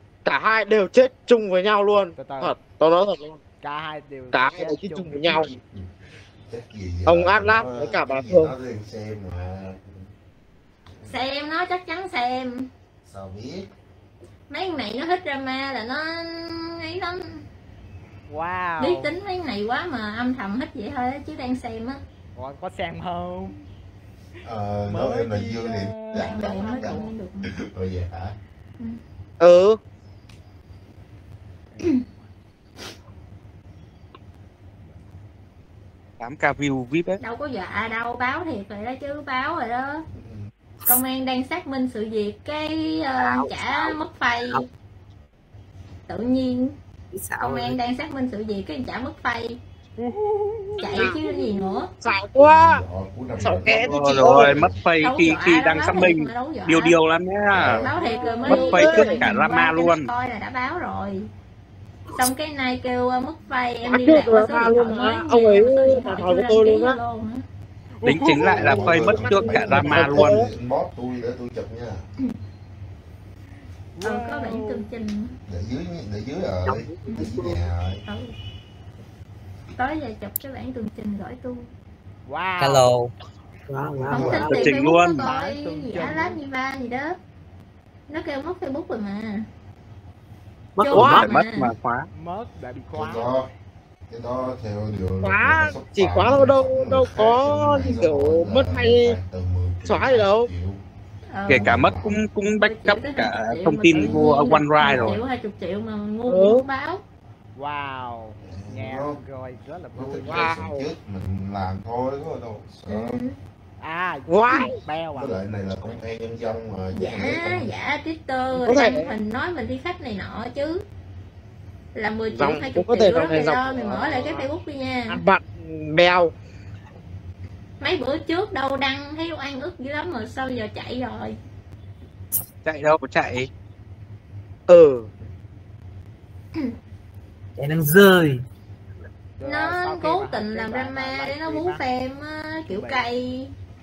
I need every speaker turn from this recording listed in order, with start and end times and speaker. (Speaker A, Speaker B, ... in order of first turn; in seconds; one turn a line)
Speaker A: 0.2-3.4
Speaker B: 2.2-2.6
Speaker B: 3.6-5.5
Speaker A: 4.3-5.5
Speaker C: 5.5-5.9
Speaker C: 6.4-10.1
Speaker A: 7.1-8.5
Speaker D: 11.1-12.7
Speaker C: 13.1-13.7
Speaker D: 14.5-17.4
Speaker B: 18.3-19.1
Speaker D: 18.8-22.0
Speaker B: 22.4-23.6
Speaker C: 24.4-28.4
Speaker B: 24.9-27.0
Speaker D: 26.2-27.5
Speaker A: 29.4-29.8
Speaker B: 31.7-32.3
Speaker E: 36.2-37.2
Speaker D: 37.2-40.1
Speaker C: 40.2-40.5
Speaker D: 40.9-44.7
Speaker F: 43.2-43.9
Speaker D: 46.1-46.8
Speaker F: 47.1-47.8
Speaker D: 47.4-49.6
Speaker B: 50.0-51.2
Speaker D: 50.8-51.9
Speaker A: 50.8-51.5
Speaker A: 52.0-52.8
Speaker C: 52.4-54.8
Speaker A: 53.4-54.6
Speaker E: 53.8-57.8
Speaker D: 55.0-57.0
Speaker C: 57.5-58.0
Speaker D: 57.7-61.3
Speaker B: 57.9-59.1
Speaker E: 58.5-60.1
Speaker A: 58.7-59.2
Speaker D: 62.2-67.5
Speaker A: 63.9-67.0
Speaker B: 68.0-69.8
Speaker E: 68.0-70.4
Speaker C: 68.5-72.0
Speaker A: 69.7-70.5
Speaker B: 74.0-74.9
Speaker D: 74.0-75.4
Speaker C: 75.5-78.0
Speaker F: 76.7-77.6
Speaker D: 77.1-77.4
Speaker D: 78.0-78.3
Speaker D: 79.8-81.7
Speaker B: 82.3-83.0
Speaker E: 82.6-83.1
Speaker F: 83.7-84.3
Speaker C: 84.0-84.6
Speaker D: 84.1-87.2
Speaker B: 84.2-86.4
Speaker E: 84.4-85.3
Speaker D: 88.1-89.5
Speaker F: 90.8-91.2
Speaker D: 90.8-91.7
Speaker E: 90.9-92.1
Speaker A: 91.0-91.2
Speaker B: 92.1-93.5
Speaker C: 92.9-93.5
Speaker C: 94.1-100.8
Speaker A: 95.2-99.2
Speaker A: 99.8-100.5
Speaker D: 101.3-101.8
Speaker E: 101.5-105.2
Speaker C: 101.5-102.2
Speaker D: 102.6-107.0
Speaker C: 104.8-105.2
Speaker A: 106.3-106.7
Speaker B: 107.6-110.6
Speaker C: 108.4-109.2
Speaker C: 109.9-113.2
Speaker A: 110.2-110.8
Speaker D: 112.9-113.3
Speaker B: 113.8-115.4
Speaker A: 114.3-114.8
Speaker C: 115.1-117.7
Speaker D: 116.9-120.8
Speaker A: 118.6-119.1
Speaker D: 122.0-125.2
Speaker A: 122.3-124.5
Speaker A: 125.1-126.3
Speaker D: 127.8-131.4
Speaker E: 132.6-133.5
Speaker A: 134.7-135.1
Speaker F: 137.6-138.4
Speaker B: 139.4-141.8
Speaker D: 139.4-143.5
Speaker B: 142.7-143.0